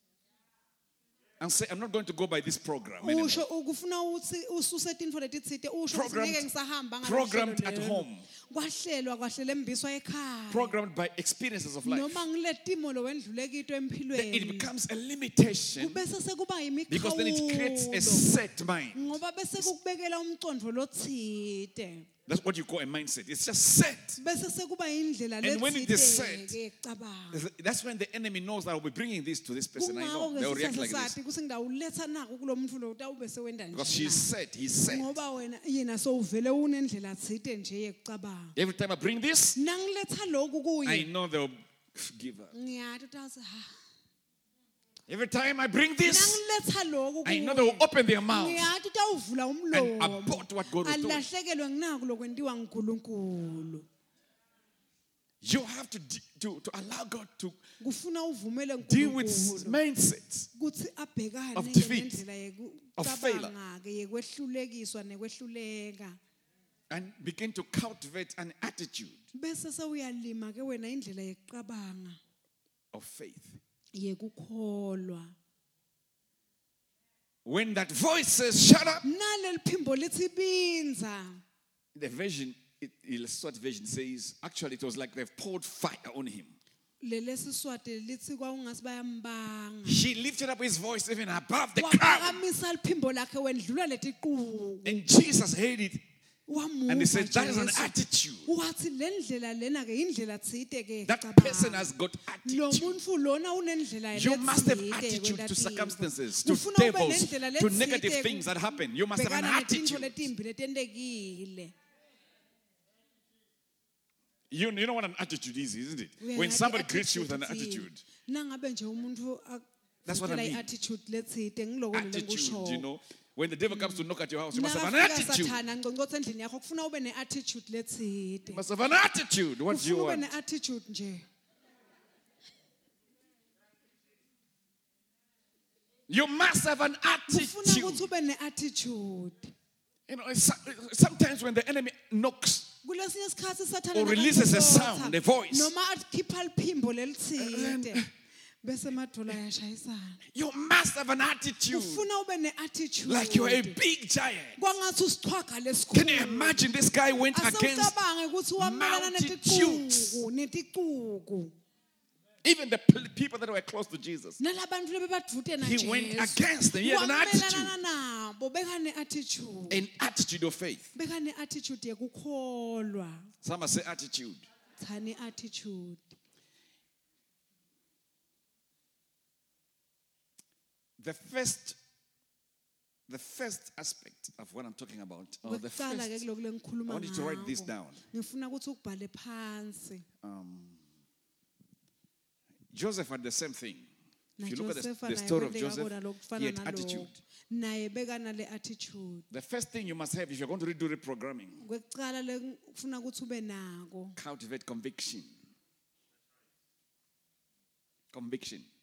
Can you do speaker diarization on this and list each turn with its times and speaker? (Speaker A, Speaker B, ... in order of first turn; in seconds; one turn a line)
Speaker A: 1.4-3.5
Speaker B: 3.0-10.8
Speaker A: 5.9-6.5
Speaker A: 7.0-8.3
Speaker A: 10.5-12.2
Speaker B: 11.8-14.7
Speaker A: 14.1-16.0
Speaker B: 15.8-18.3
Speaker A: 16.9-19.2
Speaker B: 18.9-22.1
Speaker A: 22.3-24.2
Speaker B: 24.2-27.4
Speaker A: 25.4-26.6
Speaker A: 27.3-31.1
Speaker B: 29.8-34.3
Speaker A: 33.7-35.2
Speaker B: 34.9-38.5
Speaker A: 38.5-39.6
Speaker B: 39.5-41.1
Speaker A: 40.8-42.5
Speaker B: 42.5-43.8
Speaker A: 45.1-46.4
Speaker B: 46.0-53.9
Speaker A: 47.2-48.7
Speaker A: 49.7-51.2
Speaker A: 55.4-57.6
Speaker B: 57.8-59.8
Speaker A: 58.8-60.5
Speaker B: 60.5-66.2
Speaker A: 61.5-62.2
Speaker A: 63.0-63.5
Speaker A: 66.9-69.2
Speaker B: 69.3-72.2
Speaker A: 72.9-73.6
Speaker B: 73.9-75.3
Speaker A: 77.4-79.0
Speaker B: 79.0-81.4
Speaker A: 81.9-86.5
Speaker B: 87.0-90.0
Speaker A: 89.8-92.4
Speaker B: 91.8-95.0
Speaker A: 94.8-96.0
Speaker B: 96.5-101.9
Speaker A: 96.9-98.5
Speaker A: 101.0-103.0
Speaker B: 102.4-111.7
Speaker A: 104.1-110.3
Speaker A: 114.5-118.0
Speaker B: 116.2-122.8
Speaker A: 120.0-120.7
Speaker A: 121.9-125.6
Speaker B: 123.7-128.6
Speaker A: 128.5-130.2
Speaker B: 129.7-131.2
Speaker A: 136.1-138.0
Speaker B: 137.3-139.5
Speaker A: 140.1-142.7
Speaker B: 142.8-148.0
Speaker A: 143.9-145.7
Speaker A: 147.4-148.1
Speaker B: 148.6-150.2
Speaker A: 150.3-152.1
Speaker B: 151.7-153.8
Speaker A: 153.0-154.6
Speaker B: 154.6-156.7
Speaker A: 155.9-158.0
Speaker B: 157.3-161.5
Speaker A: 158.6-160.2
Speaker A: 162.4-164.4
Speaker B: 164.4-169.8
Speaker A: 165.6-167.8
Speaker A: 169.7-170.9
Speaker B: 170.9-173.3
Speaker A: 173.4-174.4
Speaker B: 174.8-176.2
Speaker A: 181.0-181.8
Speaker A: 183.1-186.2
Speaker B: 185.4-190.1
Speaker A: 186.9-188.0
Speaker A: 190.2-190.8
Speaker A: 192.7-193.9
Speaker B: 194.4-199.2
Speaker A: 194.4-197.2
Speaker A: 199.3-201.6
Speaker B: 201.6-204.2
Speaker A: 204.2-205.3
Speaker A: 208.1-208.7